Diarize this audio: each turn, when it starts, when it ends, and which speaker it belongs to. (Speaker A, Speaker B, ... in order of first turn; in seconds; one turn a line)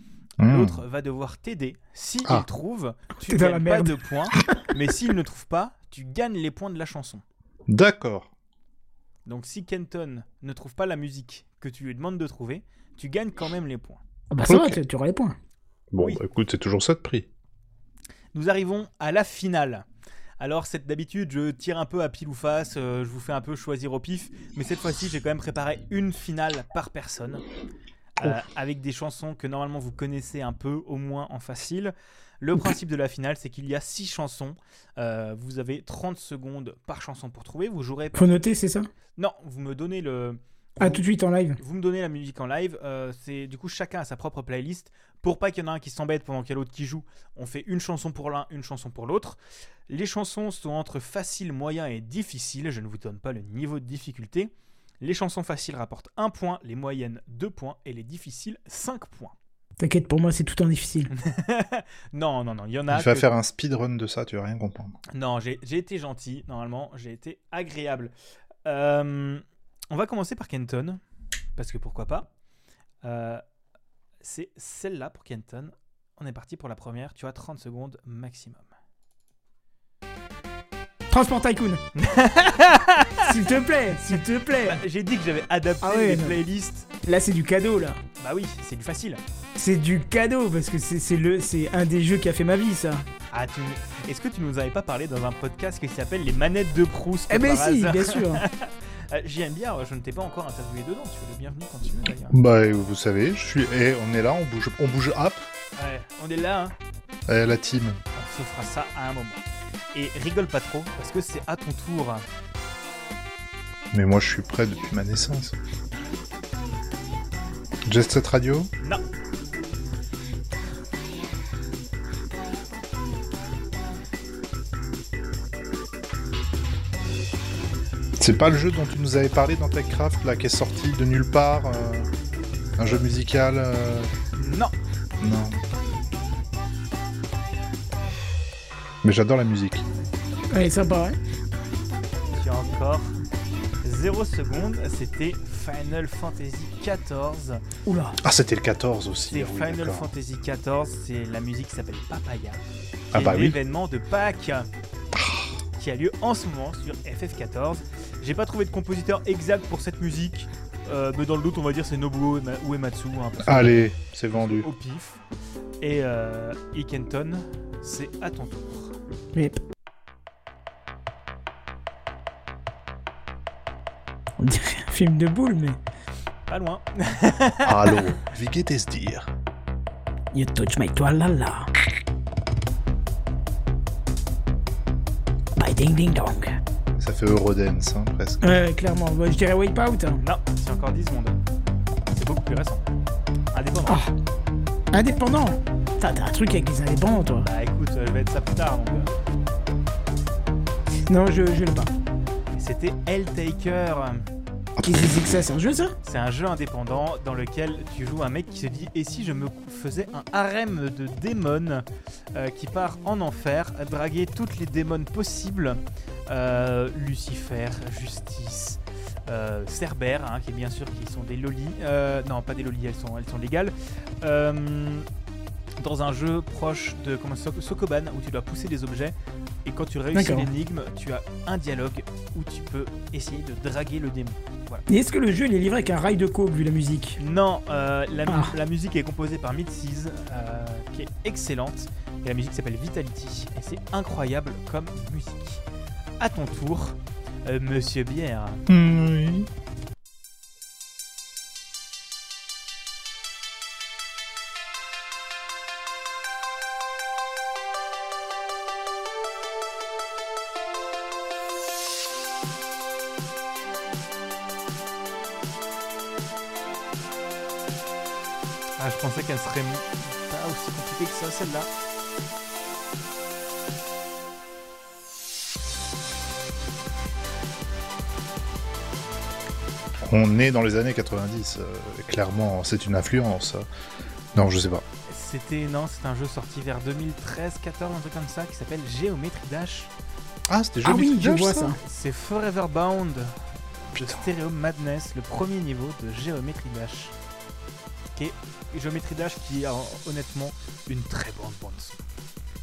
Speaker A: 0.4-0.8
Speaker B: 0.4-7.2
Speaker C: 3.3-4.0
Speaker A: 7.7-8.3
Speaker B: 9.3-14.0
Speaker C: 14.3-15.4
Speaker A: 14.5-14.8
Speaker A: 15.9-17.3
Speaker B: 18.3-19.9
Speaker B: 20.4-27.4
Speaker B: 28.2-38.4
Speaker C: 38.1-38.9
Speaker B: 39.2-41.0
Speaker C: 40.8-41.6
Speaker B: 41.6-49.4
Speaker B: 49.9-59.4
Speaker C: 59.8-61.1
Speaker B: 61.1-63.3
Speaker A: 62.9-65.0
Speaker B: 65.1-68.1
Speaker B: 68.7-71.0
Speaker B: 71.6-72.3
Speaker B: 73.0-73.4
Speaker B: 74.2-78.7
Speaker C: 81.1-81.8
Speaker B: 82.0-86.9
Speaker C: 83.2-84.8
Speaker C: 85.8-86.4
Speaker C: 87.0-88.0
Speaker B: 88.2-89.2
Speaker C: 89.6-93.1
Speaker B: 93.3-102.4
Speaker C: 97.3-98.5
Speaker A: 102.3-105.4
Speaker B: 105.8-106.7
Speaker A: 107.3-108.0
Speaker B: 108.1-112.2
Speaker A: 113.9-115.6
Speaker A: 117.9-118.7
Speaker A: 128.2-132.1
Speaker A: 132.8-134.1
Speaker B: 134.4-134.7
Speaker A: 135.2-135.6
Speaker A: 139.0-139.9
Speaker C: 140.5-141.2
Speaker B: 142.3-143.2
Speaker B: 143.8-147.6
Speaker C: 147.9-148.2
Speaker A: 148.2-150.1
Speaker B: 149.3-154.7
Speaker A: 153.1-153.6
Speaker A: 155.1-155.6
Speaker B: 155.8-165.2
Speaker A: 163.4-164.7
Speaker B: 165.8-169.0
Speaker C: 169.3-169.6
Speaker C: 174.4-175.8
Speaker B: 176.5-178.2
Speaker A: 177.6-179.3
Speaker C: 180.3-181.7
Speaker C: 185.6-186.6
Speaker A: 186.9-188.5
Speaker C: 188.4-190.2
Speaker B: 190.2-191.4
Speaker B: 192.1-192.9
Speaker B: 193.5-194.0
Speaker C: 194.9-197.5
Speaker B: 197.4-199.1
Speaker C: 201.1-201.9
Speaker B: 202.5-204.2
Speaker A: 204.8-205.1
Speaker C: 204.8-205.9
Speaker B: 206.0-225.1
Speaker B: 225.8-234.8
Speaker C: 230.1-230.5
Speaker C: 234.9-237.2
Speaker B: 237.2-245.6
Speaker C: 238.3-238.5
Speaker B: 246.2-248.6
Speaker A: 248.7-249.5
Speaker B: 268.8-271.7
Speaker A: 280.0-283.7
Speaker A: 284.3-284.8
Speaker B: 285.1-289.9
Speaker A: 290.5-291.7
Speaker C: 290.9-291.8
Speaker B: 291.8-297.1
Speaker A: 293.9-294.3
Speaker B: 298.1-302.0